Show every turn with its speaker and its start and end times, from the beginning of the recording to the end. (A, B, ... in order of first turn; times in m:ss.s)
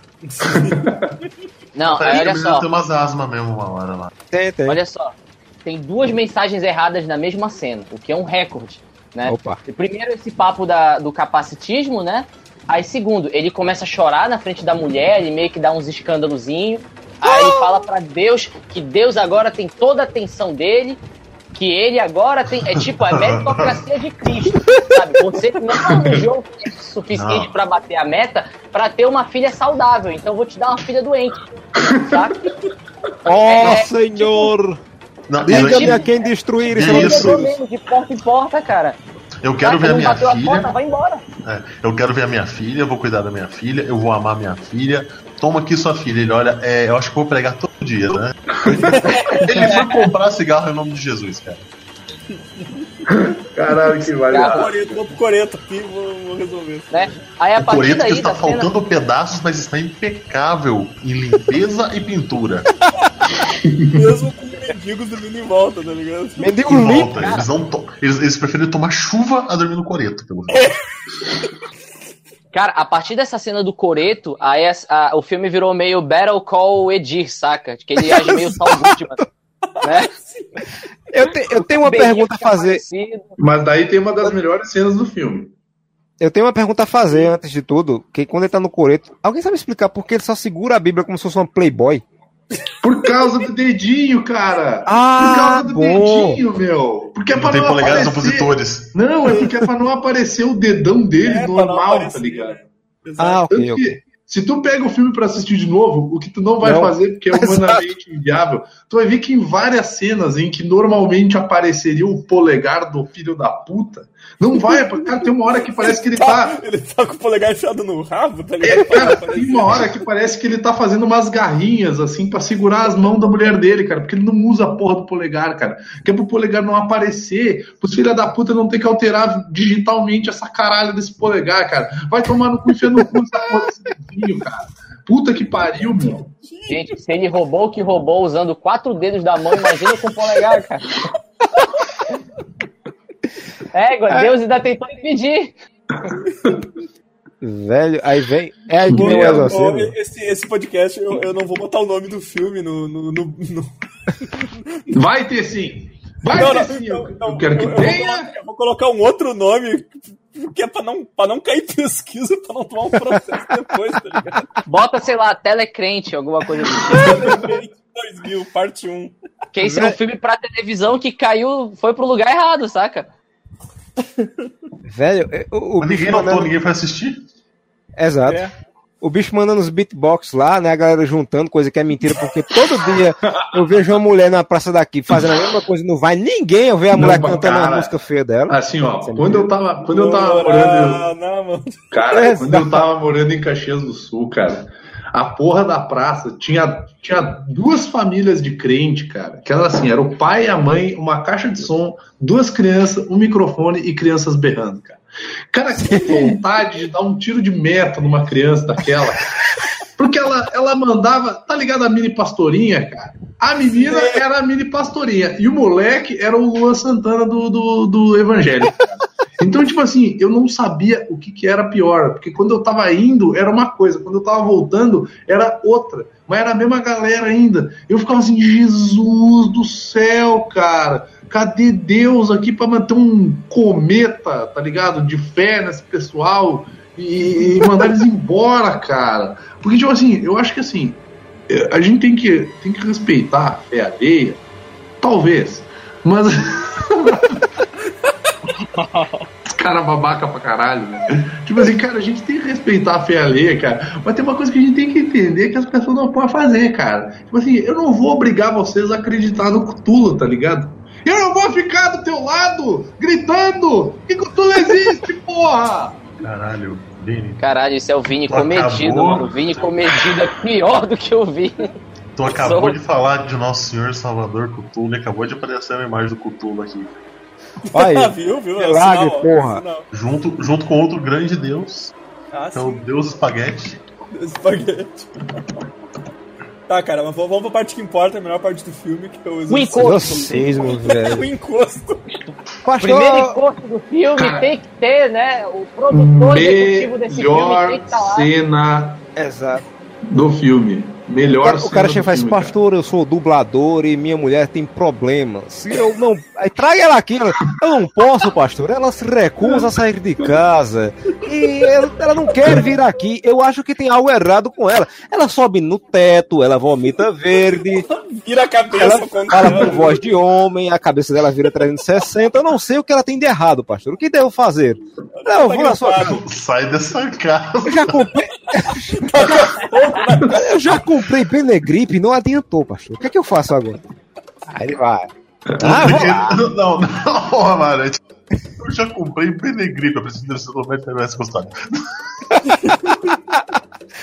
0:00.2-0:00.8 A
0:00.4-0:01.1 B
0:01.7-0:02.7 C
0:01.8-0:04.1 D
0:04.3-0:04.8 E
0:04.7-0:21.0 C
0:09.2-0:09.6 E
0:17.2-0:17.8 E
0:21.5-0:31.4 C
0:22.9-0:23.8 D
0:27.1-0:27.5 D
0:31.8-0:32.2 B
0:32.0-0:32.5 C
0:33.2-0:34.8 E
0:33.4-0:34.5 C
0:35.3-0:36.1 D
0:35.4-0:37.5 E
0:35.5-0:36.0 C
0:36.6-0:37.5 D
0:36.7-0:39.0 C
0:39.4-0:40.7 D
0:39.6-0:41.2 C
0:41.4-0:51.6 D
0:48.6-0:49.1 B
0:48.9-0:49.8 A
0:49.3-0:49.8 C
0:53.1-0:54.7 B
0:54.3-0:54.7 C
0:54.4-0:57.2 A
0:56.9-0:58.7 C
0:57.6-1:02.7 D
1:03.5-1:04.0 B
1:03.9-1:06.6 A
1:06.4-1:07.2 E
1:06.6-1:10.7 D
1:07.2-1:07.5 C
1:12.5-1:19.2 C
1:18.0-1:18.9 E
1:19.8-1:20.1 C
1:19.8-1:20.6 A
1:21.1-1:22.8 E
1:21.7-1:23.3 C
1:23.4-1:25.5 B
1:26.2-1:32.0 E
1:32.8-1:42.6 B
1:34.8-1:36.4 E
1:37.3-1:38.9 D
1:41.2-1:43.4 A
1:43.2-1:44.0 E
1:43.5-1:56.6 B
1:46.6-1:47.8 E
1:54.6-1:55.3 A
1:55.8-2:00.0 A
1:58.6-2:16.3 B
2:16.4-2:17.0 A
2:16.7-2:21.0 C
2:23.7-2:25.5 C
2:24.1-2:24.3 E
2:26.0-2:26.6 B
2:27.4-2:29.9 E
2:28.9-2:29.5 B
2:28.9-2:33.7 A
2:34.2-2:34.8 A
2:34.9-2:38.3 B
2:36.2-2:44.5 A
2:44.6-2:47.2 C
2:46.9-2:49.1 A
2:47.0-2:47.4 B
2:49.5-2:53.1 C
2:49.6-2:50.0 E
2:54.9-2:56.5 E
2:55.8-2:57.2 D
2:58.0-2:58.4 E
2:58.2-2:58.5 A
2:59.0-3:09.5 E
3:06.9-3:07.9 B
3:08.5-3:11.0 B
3:09.9-3:12.2 A
3:11.9-3:29.3 B
3:12.1-3:12.9 E
3:25.8-3:26.4 E
3:30.0-4:04.4 B
3:33.7-3:34.2 A
4:05.0-4:07.4 B
4:09.5-4:26.0 B
4:26.2-4:27.4 D
4:27.4-4:31.7 C
4:28.2-4:29.4 D
4:32.2-4:36.9 D
4:32.3-4:32.8 C
4:37.7-4:39.8 A
4:37.7-4:39.6 E
4:39.9-4:41.9 D
4:42.3-4:42.9 A
4:42.5-4:43.8 D
4:44.1-4:45.4 A
4:46.7-4:52.0 A
4:49.5-4:50.3 C
4:49.7-4:51.3 E
4:52.6-4:53.4 E
4:52.8-4:58.3 C
4:54.2-4:54.4 B
4:55.9-4:59.0 B
4:59.2-4:59.6 E
5:00.1-5:02.5 B
5:01.4-5:17.9 E
5:17.9-5:20.0 A
5:18.7-5:26.2 E
5:25.2-5:26.2 A
5:26.0-5:28.0 D
5:27.6-5:29.7 E
5:29.0-5:30.5 A
5:30.3-5:33.8 E
5:34.5-5:35.1 E
5:35.5-5:36.2 B
5:35.6-5:36.4 E
5:35.6-5:38.0 D
5:38.6-5:42.0 D
5:43.1-5:43.6 E